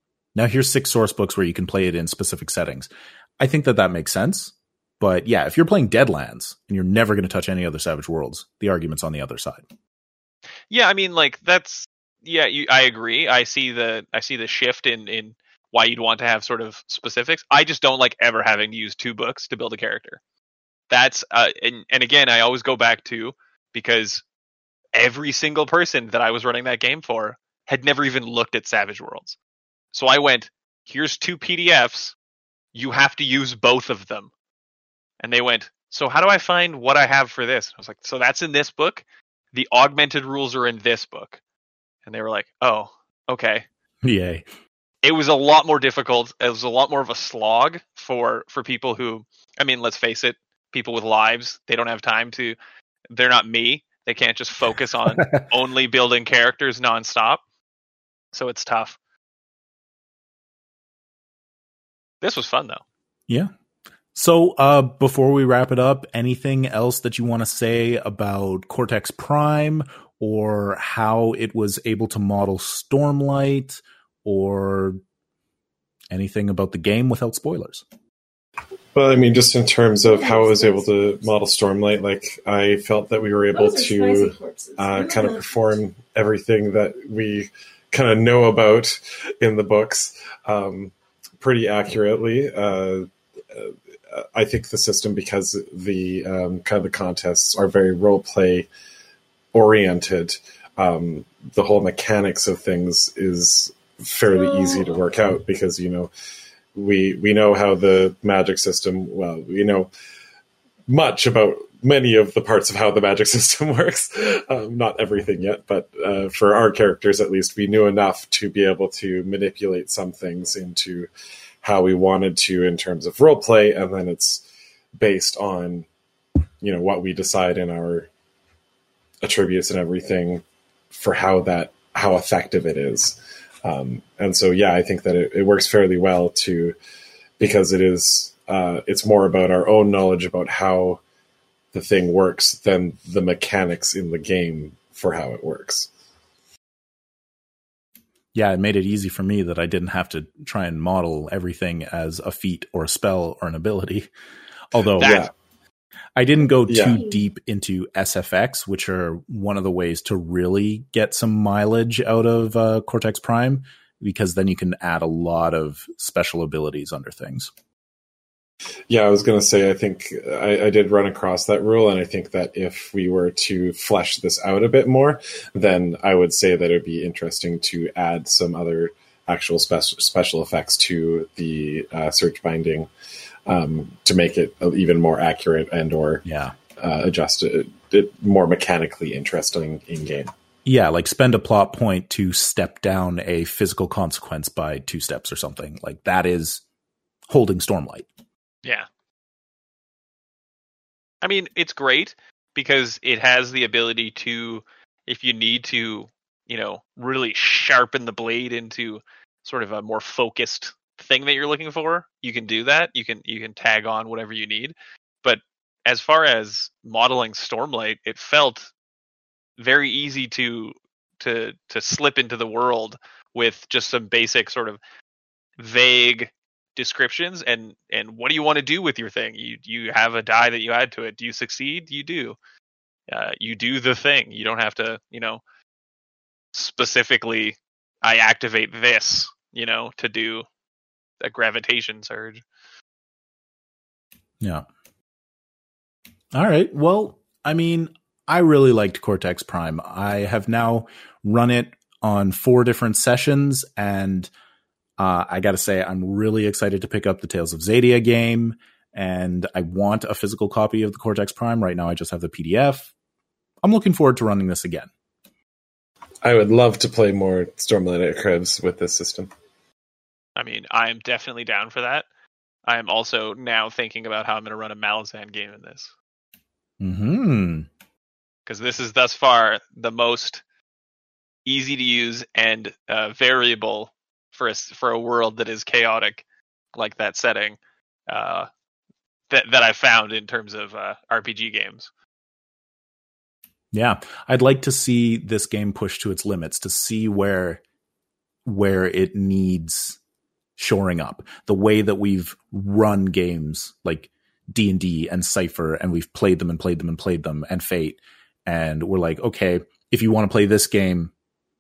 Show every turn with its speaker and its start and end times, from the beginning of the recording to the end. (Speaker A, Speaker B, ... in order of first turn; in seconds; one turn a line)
Speaker A: 0.3-9.6
Speaker B: 10.7-20.2
Speaker B: 20.9-24.2
Speaker B: 24.9-29.4
Speaker B: 29.9-32.1
Speaker B: 32.7-34.3
Speaker B: 35.2-41.4
Speaker B: 42.1-43.6
Speaker A: 44.0-44.5
Speaker B: 45.0-52.6
Speaker B: 53.1-57.4
Speaker B: 58.3-59.0
Speaker B: 62.2-62.8
Speaker A: 64.2-75.0
Speaker A: 76.1-77.8
Speaker C: 78.9-98.7
Speaker C: 99.5-106.1
Speaker C: 106.8-109.9
Speaker C: 110.9-121.1
Speaker C: 121.6-124.4
Speaker C: 125.0-125.9
Speaker C: 126.6-128.1
Speaker C: 129.2-136.8
Speaker C: 137.4-141.0
Speaker C: 141.7-145.9
Speaker A: 148.3-154.1
Speaker A: 154.7-155.2
Speaker B: 155.0-155.3
Speaker C: 155.0-155.3
Speaker A: 156.2-167.5
Speaker C: 156.7-157.0
Speaker C: 168.9-182.9
Speaker C: 183.5-186.2
Speaker A: 186.2-186.6
Speaker C: 186.8-190.3
Speaker A: 190.7-196.6
Speaker A: 197.3-198.1
Speaker B: 201.2-218.7
Speaker B: 219.6-224.8
Speaker B: 225.6-232.4
Speaker B: 233.1-235.4
Speaker B: 236.5-240.5
Speaker B: 241.2-242.4
Speaker A: 244.4-244.7
Speaker A: 246.3-254.3
Speaker A: 255.0-262.9
Speaker A: 263.6-264.9
Speaker C: 266.2-269.3
Speaker B: 270.4-272.1
Speaker B: 272.6-275.9
Speaker A: 276.8-277.7
Speaker B: 278.5-280.4
Speaker B: 281.5-286.2
Speaker B: 286.8-288.5
Speaker B: 289.3-291.9
Speaker A: 293.7-297.6
Speaker A: 298.4-300.0
Speaker A: 300.6-311.1